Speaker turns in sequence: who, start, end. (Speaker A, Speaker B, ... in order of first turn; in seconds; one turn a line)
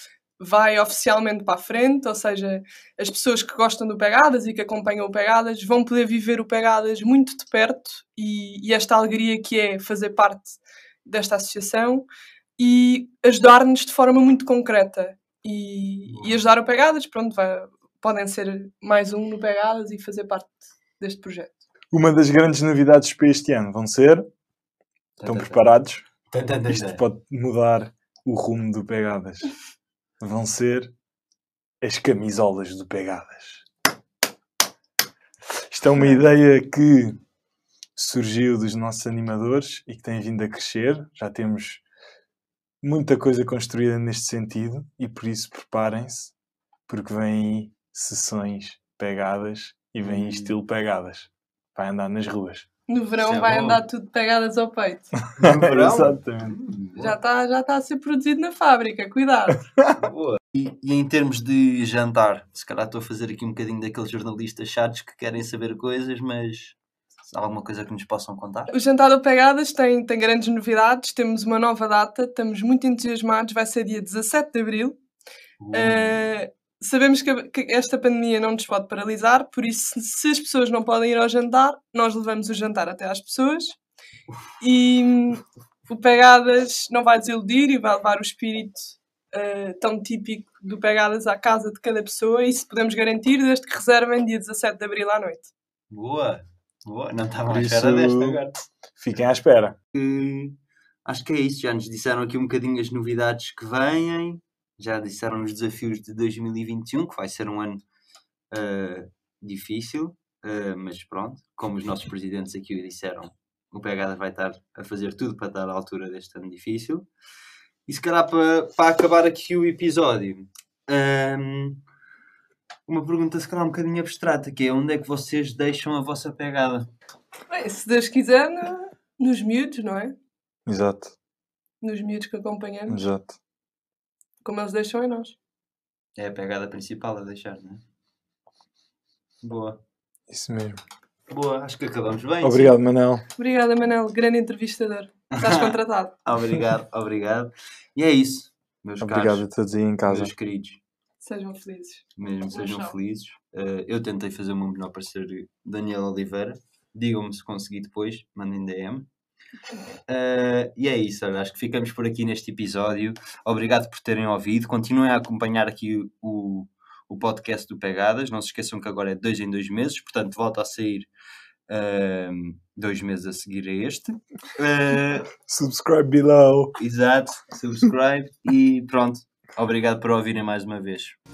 Speaker A: 0.4-12.1
Speaker A: 12.6-21.6
Speaker B: 16.1-16.4
Speaker C: 21.9-24.3
Speaker B: 25.2-25.6
Speaker C: 25.2-26.0
Speaker B: 26.3-27.0
Speaker C: 26.7-29.5
Speaker C: 30.2-30.9
Speaker C: 31.8-33.6
Speaker C: 35.7-37.2
Speaker C: 38.0-41.8
Speaker C: 42.8-46.3
Speaker C: 46.9-52.6
Speaker B: 50.0-50.6
Speaker A: 52.9-55.2
Speaker B: 53.2-53.8
Speaker C: 55.4-56.6
Speaker B: 55.4-57.1
Speaker A: 57.0-59.6
Speaker B: 60.0-68.7
Speaker A: 68.7-75.0
Speaker B: 75.6-76.3
Speaker A: 75.7-83.8
Speaker A: 84.6-95.5
Speaker B: 95.9-98.5
Speaker C: 97.5-99.8
Speaker B: 99.9-107.8
Speaker B: 108.5-117.1
Speaker B: 117.9-121.8
Speaker B: 122.9-126.9
Speaker A: 127.5-130.2
Speaker C: 130.7-131.1
Speaker A: 131.8-133.0
Speaker C: 132.9-133.4
Speaker A: 134.4-135.3
Speaker B: 136.2-137.8
Speaker B: 139.4-139.8
Speaker C: 140.3-140.8
Speaker B: 141.3-142.7
Speaker C: 142.4-143.2
Speaker A: 143.4-146.2
Speaker B: 145.4-145.7
Speaker B: 146.2-149.4
Speaker C: 149.0-150.3
Speaker B: 150.1-150.8
Speaker A: 151.2-152.9
Speaker B: 152.2-159.1
Speaker B: 160.1-171.1
Speaker B: 171.7-175.3
Speaker C: 175.4-176.8
Speaker B: 176.8-181.2